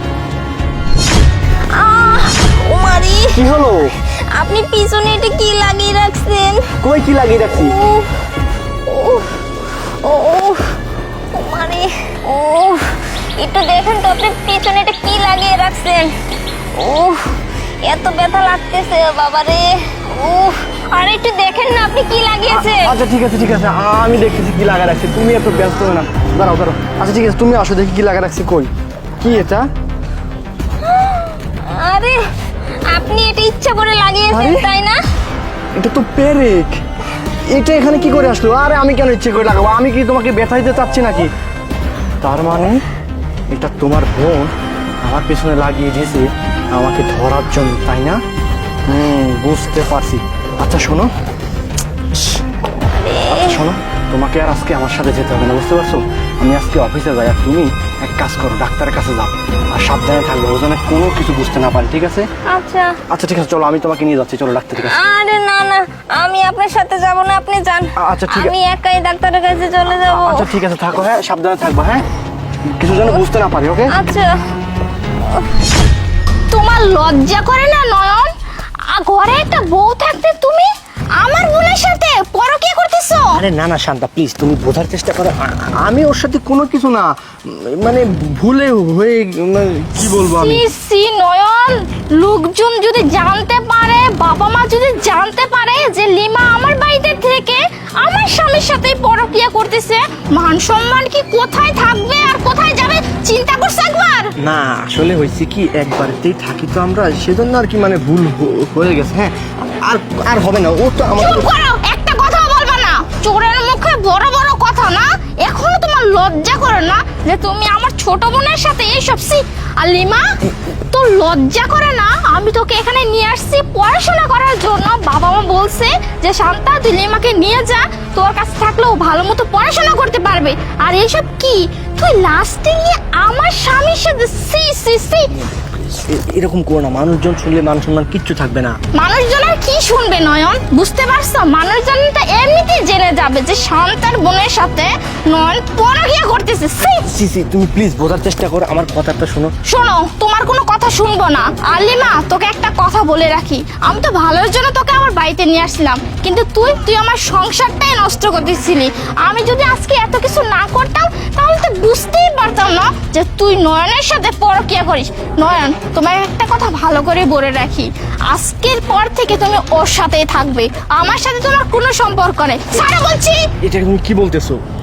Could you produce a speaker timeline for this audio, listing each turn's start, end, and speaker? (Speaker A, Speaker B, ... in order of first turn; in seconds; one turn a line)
Speaker A: 1.7-3.4
Speaker B: 3.3-3.9
Speaker A: 4.3-6.6
Speaker B: 6.8-7.8
Speaker A: 7.5-8.1
Speaker A: 8.9-9.4
Speaker A: 10.0-10.8
Speaker A: 11.3-16.1
Speaker A: 16.8-22.9
Speaker B: 22.5-28.7
Speaker B: 29.2-29.7
Speaker A: 30.8-32.2
Speaker A: 32.9-35.0
Speaker B: 34.3-34.7
Speaker B: 35.8-36.8
Speaker B: 37.5-41.3
Speaker B: 42.2-42.8
Speaker B: 43.5-48.2
Speaker B: 48.9-51.1
Speaker A: 52.9-53.7
Speaker B: 53.3-62.3
Speaker A: 62.5-63.0
Speaker B: 63.1-65.0
Speaker A: 64.8-70.6
Speaker B: 68.0-68.6
Speaker B: 70.1-72.0
Speaker B: 72.7-73.9
Speaker A: 73.9-74.4
Speaker A: 75.2-75.5
Speaker C: 76.5-78.3
Speaker C: 78.9-83.4
Speaker B: 83.3-90.7
Speaker C: 90.0-104.3
Speaker B: 104.4-111.5
Speaker C: 111.2-135.3
Speaker B: 135.9-138.8
Speaker C: 138.9-147.1
Speaker B: 147.1-149.5
Speaker C: 149.7-173.5
Speaker B: 173.6-174.6